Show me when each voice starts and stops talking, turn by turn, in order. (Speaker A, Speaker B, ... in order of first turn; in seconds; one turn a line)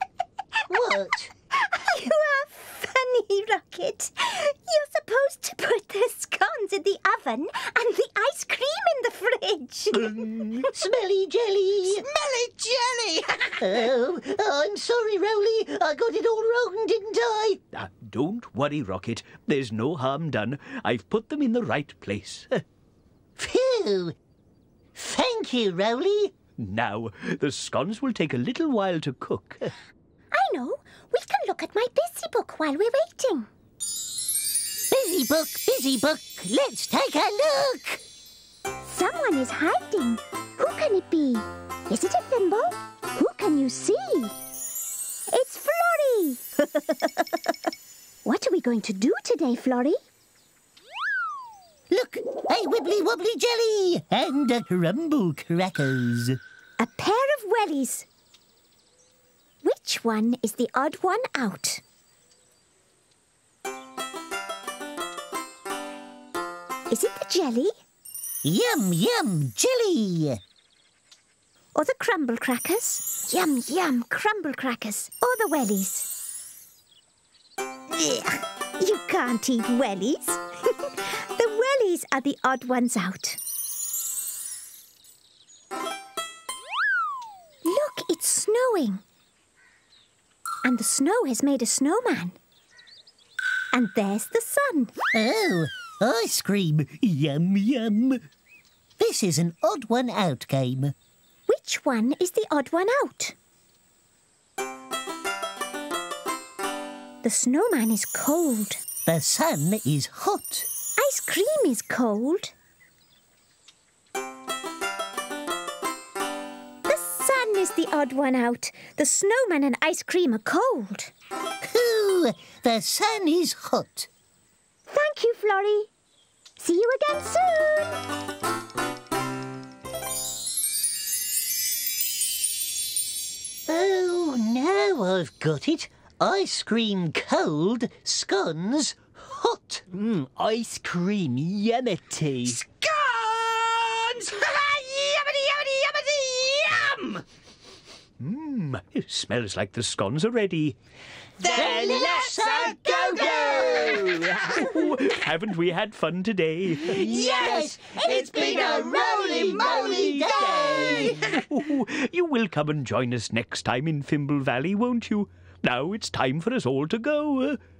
Speaker A: 0.7-1.3
Speaker B: 1.6-10.3
Speaker A: 10.2-12.1
Speaker C: 11.9-13.8
Speaker A: 13.6-17.6
Speaker D: 17.7-22.6
Speaker A: 23.4-24.2
Speaker A: 24.9-26.4
Speaker D: 26.6-29.7
Speaker B: 30.3-33.5
Speaker A: 34.9-38.0
Speaker B: 38.8-44.4
Speaker B: 45.3-46.4
Speaker B: 48.2-50.0
Speaker A: 51.9-56.4
Speaker B: 56.8-58.1
Speaker B: 59.6-61.8
Speaker B: 66.9-67.7
Speaker A: 68.4-70.4
Speaker B: 71.8-76.1
Speaker B: 78.8-83.4
Speaker B: 87.6-89.0
Speaker B: 90.6-92.4
Speaker B: 93.7-94.9
Speaker A: 95.1-98.2
Speaker A: 99.0-101.0
Speaker B: 101.5-103.3
Speaker B: 107.2-108.8
Speaker A: 109.1-110.7
Speaker B: 111.0-112.5
Speaker B: 116.9-121.1
Speaker A: 121.6-124.1
Speaker B: 124.9-125.9
Speaker B: 126.6-128.0
Speaker A: 133.7-139.9
Speaker E: 140.0-141.6
Speaker A: 141.3-142.2
Speaker C: 142.5-147.2
Speaker D: 148.2-150.8
Speaker C: 151.4-154.6
Speaker A: 151.5-154.3
Speaker E: 153.5-154.0
Speaker D: 154.5-157.0
Speaker C: 156.8-161.5
Speaker A: 156.9-161.2
Speaker D: 161.2-167.6